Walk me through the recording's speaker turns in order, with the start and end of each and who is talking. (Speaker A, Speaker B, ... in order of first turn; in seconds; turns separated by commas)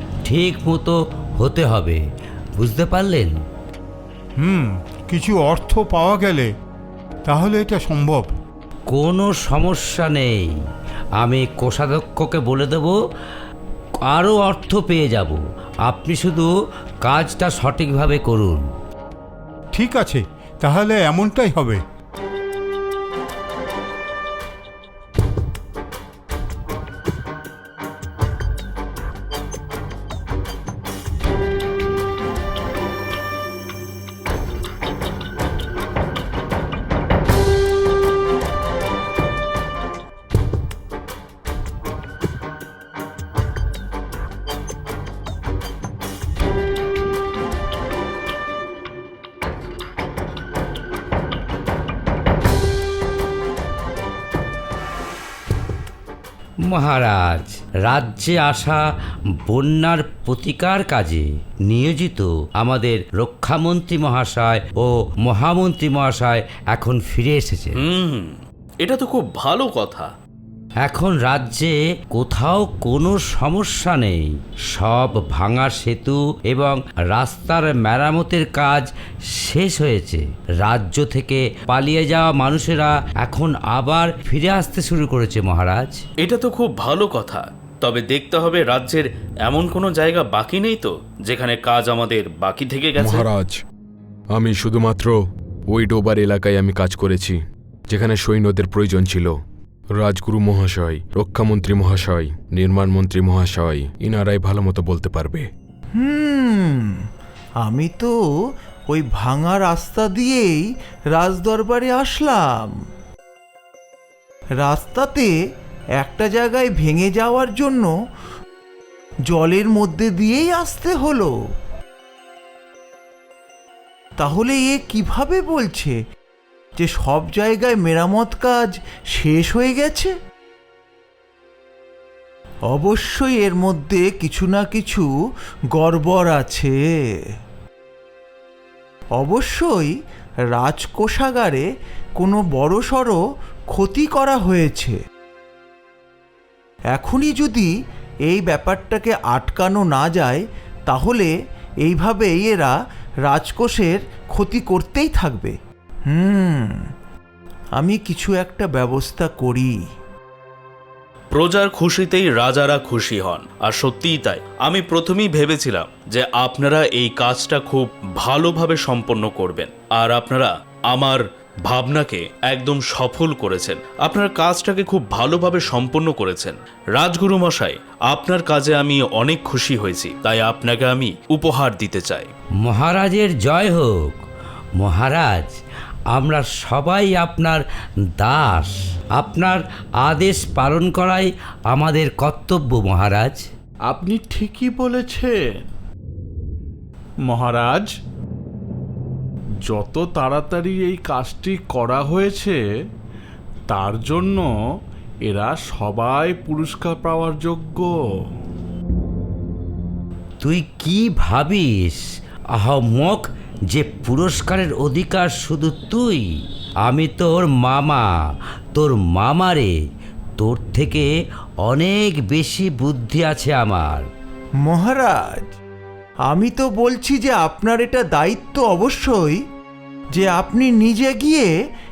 Speaker A: 0.2-2.0, Speaker A: 2.6-3.3, Speaker B: 4.4-6.5, Speaker B: 7.3-8.3, Speaker A: 8.9-10.6, Speaker A: 11.2-13.0, Speaker A: 14.1-16.5, Speaker A: 17.0-18.6, Speaker B: 19.7-21.8, Speaker A: 56.7-58.8, Speaker A: 59.4-67.8, Speaker C: 67.8-70.1, Speaker A: 70.8-86.0, Speaker C: 86.2-93.3, Speaker D: 93.0-93.6, Speaker D: 94.3-97.4, Speaker D: 97.9-99.3, Speaker D: 100.0-105.5, Speaker E: 106.0-107.1, Speaker E: 107.6-112.8, Speaker E: 114.6-115.3, Speaker E: 116.0-117.9, Speaker E: 119.3-121.3, Speaker E: 124.2-126.0, Speaker E: 126.8-130.1, Speaker E: 132.7-135.1, Speaker E: 135.8-137.2, Speaker E: 139.2-140.0, Speaker E: 140.5-141.6, Speaker E: 142.2-143.2, Speaker E: 143.7-145.0, Speaker E: 146.9-147.7, Speaker E: 148.3-151.3, Speaker E: 151.8-156.9, Speaker E: 157.8-159.8, Speaker C: 161.3-182.3, Speaker A: 182.6-184.2, Speaker A: 184.8-185.5, Speaker A: 186.1-187.6, Speaker A: 188.2-193.4, Speaker F: 193.9-195.4, Speaker F: 197.3-197.9, Speaker F: 199.7-202.6, Speaker F: 203.7-204.5, Speaker F: 205.3-207.9, Speaker A: 210.4-212.0, Speaker A: 212.6-218.2, Speaker A: 218.7-219.8, Speaker A: 220.4-221.1, Speaker A: 221.6-224.1, Speaker E: 224.6-225.5, Speaker E: 226.3-229.4, Speaker E: 230.1-231.5